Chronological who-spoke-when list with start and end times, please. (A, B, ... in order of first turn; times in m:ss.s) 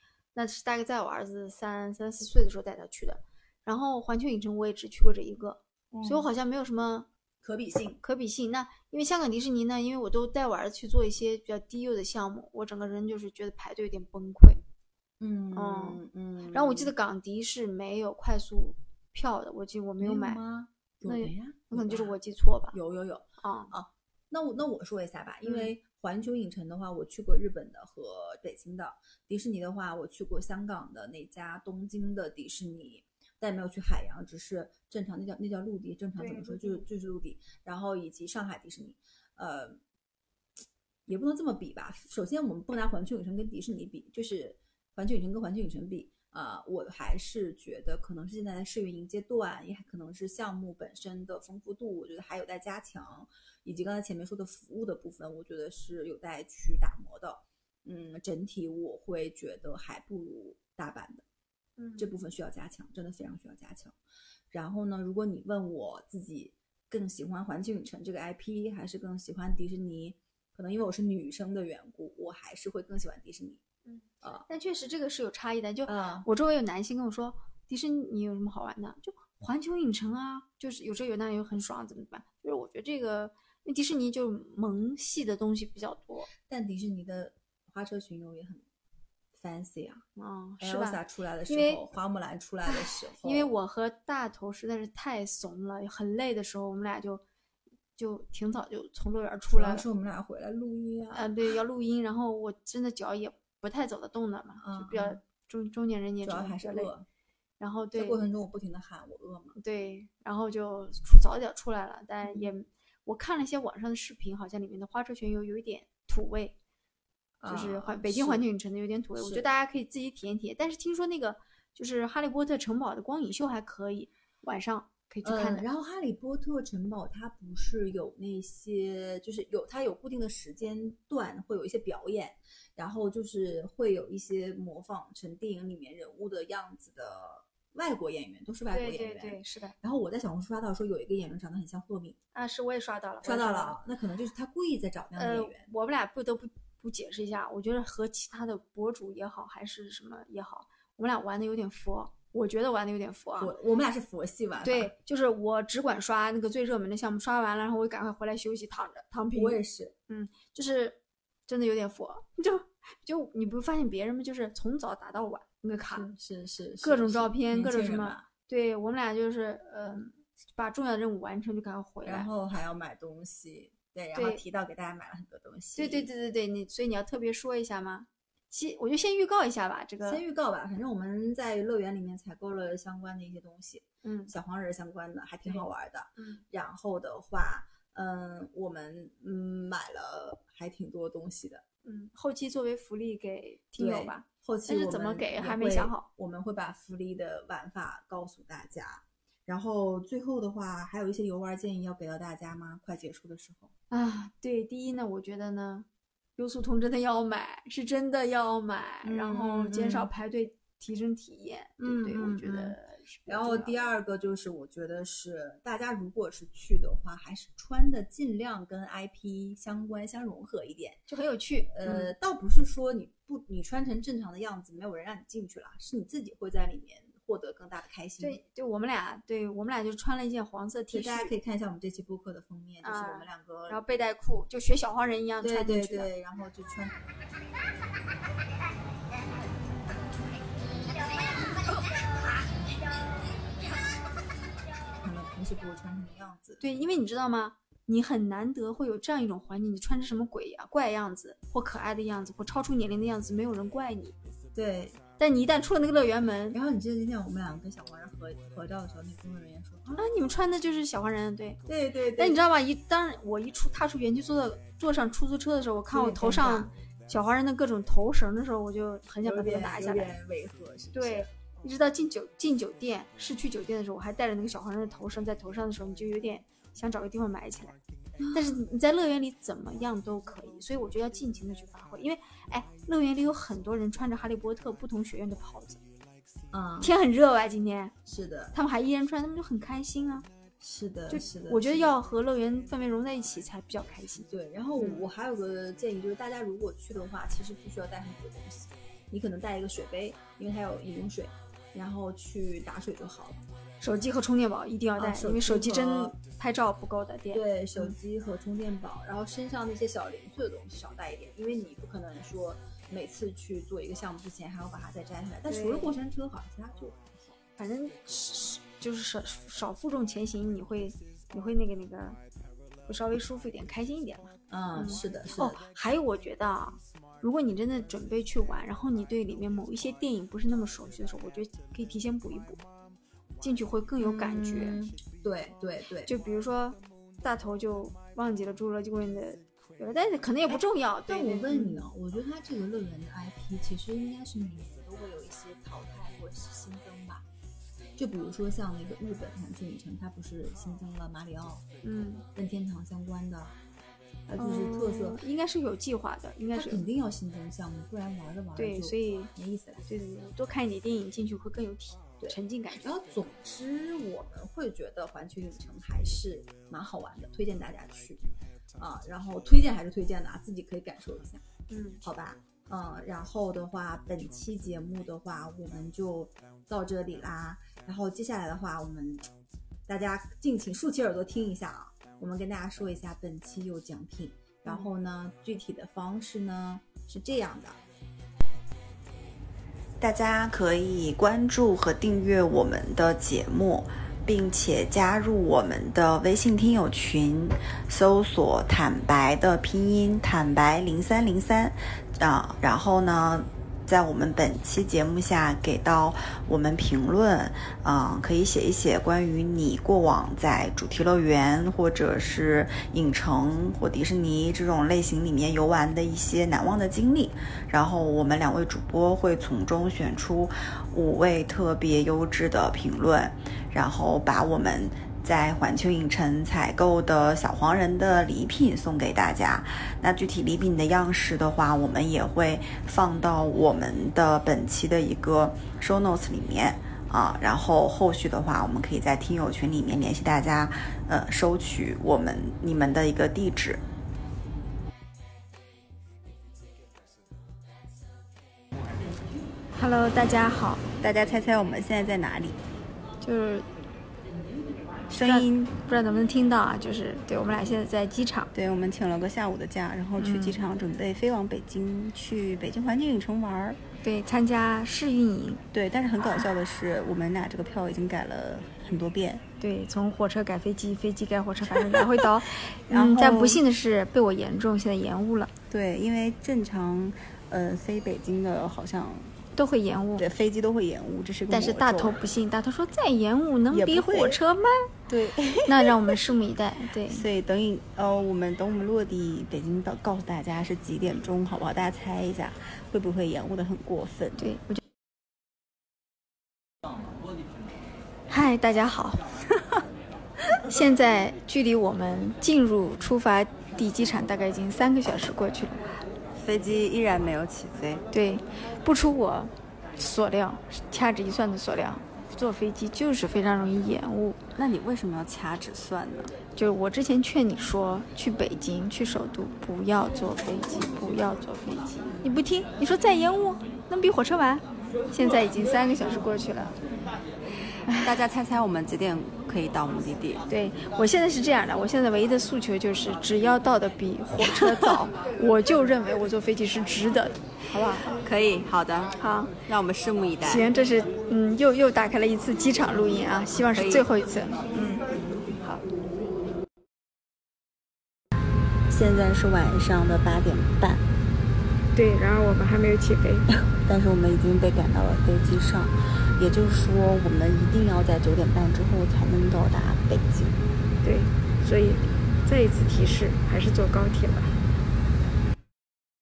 0:00.3-0:07.1 A
0:05.9-0:06.3 B
0:07.4-0:08.0 B
0:08.0-0:14.6 A
0:15.2-0:16.9 B
0:15.5-0:20.4 A
0:20.0-0:22.2 B
0:21.1-0:22.8 A
0:22.7-0:39.8 B
0:23.4-0:23.8 A
0:25.4-0:25.7 A
0:36.2-0:36.9 A
0:41.1-1:01.2 B
1:01.8-1:02.2 A
1:02.0-1:04.0 B
1:04.5-1:13.6 B
1:13.8-1:26.3 A
1:15.9-1:16.3 B
1:26.5-1:28.7 B
1:29.3-1:30.0 B
1:30.2-1:31.8 A
1:30.6-1:33.5 B
1:32.7-1:37.2 A
1:38.0-1:39.8 A
1:39.5-1:41.3 B
1:41.1-1:46.9 A
1:44.6-1:45.2 B
1:46.2-1:47.1 B
1:47.6-1:48.3 A
1:48.0-1:49.6 B
1:49.6-1:56.6 A
1:52.2-1:52.6 B
1:57.4-1:58.4 B
1:57.5-2:05.7 A
1:59.2-1:59.5 B
2:05.2-2:22.2 B
2:18.7-2:19.8 A
2:22.3-2:23.8 A
2:23.2-2:25.7 B
2:25.2-2:33.5 A
2:33.4-2:34.9 B
2:34.6-2:46.1 A
2:39.4-2:40.0 B
2:45.9-2:48.3 B
2:46.8-2:52.3 A
2:52.0-2:56.1 B
2:54.2-2:54.4 A
2:55.8-3:00.2 A
3:00.0-3:11.6 B
3:04.0-3:04.3 A
3:05.4-3:06.4 A
3:11.8-3:16.1 A
3:13.8-3:23.7 B
3:23.9-3:33.9 A
3:29.0-3:30.1 B
3:31.8-3:41.0 B
3:41.1-3:42.1 A
3:41.7-3:48.4 B
3:48.2-3:51.3 A
3:50.9-3:53.8 B
3:52.8-3:56.1 A
3:55.4-3:57.0 B
4:05.0-4:06.6 B
4:06.6-4:14.2 A
4:14.6-4:15.0 B
4:15.2-4:16.6 A
4:16.5-4:20.0 B
4:20.0-4:21.6 A
4:21.7-4:22.4 B
4:22.2-4:30.1 A
4:25.9-4:26.7 B
4:29.2-4:31.3 B
4:30.9-4:37.8 A
4:38.2-4:38.5 B
4:38.3-4:45.8 A
4:46.5-4:46.9 B
4:46.8-4:47.9 A
4:48.1-4:48.6 B
4:48.5-4:50.3 A
4:50.6-4:52.0 B
4:51.1-4:54.3 A
4:54.3-5:03.4 B
5:03.8-5:08.0 A
5:05.0-5:06.2 B
5:07.3-5:17.3 B
5:15.5-5:15.9 A
5:17.6-5:22.2 A
5:22.9-5:32.6 A
5:24.5-5:25.6 B
5:33.4-5:34.8 A
5:34.0-5:36.1 B
5:36.1-5:41.9 A
5:40.5-5:47.2 B
5:48.0-5:51.6 B
5:51.8-5:52.3 A
5:52.4-5:53.6 B
5:54.3-5:55.2 B
5:54.4-5:56.9 A
5:56.5-5:59.9 B
5:58.6-5:59.3 A
5:59.9-6:02.9 A
6:02.2-6:08.2 B
6:08.8-6:11.4 B
6:11.7-6:12.0 A
6:12.0-6:19.3 B
6:19.9-6:27.8 B
6:30.0-7:23.8 C
7:29.7-7:30.8 A
7:31.0-7:32.6 C
7:33.2-7:33.7 A
7:35.1-7:35.8 C
7:35.2-7:38.5 A
7:38.5-7:43.8 C
7:40.2-7:40.6 A
7:44.0-7:45.6 A
7:45.7-7:49.4 C
7:49.6-7:55.5 A
7:51.7-7:53.6 C
7:55.7-7:59.4 C
7:59.6-8:00.2 A
8:00.2-8:02.2 C
8:01.5-8:04.9 A
8:03.7-8:04.4 C
8:05.1-8:06.2 C
8:05.7-8:07.2 A
8:07.1-8:14.4 C
8:14.4-8:14.8 A
8:18.3-8:19.2 A
8:20.6-8:25.9 A
8:26.4-8:28.0 C
8:28.1-8:34.4 A
8:34.6-8:36.4 C
8:36.6-8:46.8 A
8:47.9-8:48.1 A
8:48.0-8:50.5 C
8:50.5-8:58.2 A
8:54.4-8:55.0 C
8:58.0-9:00.7 C
8:59.2-8:59.6 A
9:00.4-9:04.7 A
9:03.7-9:04.1 C
9:04.7-9:05.1 C
9:08.9-9:11.0 C
9:12.0-9:13.5 A
9:13.7-9:20.6 C
9:21.0-9:24.5 A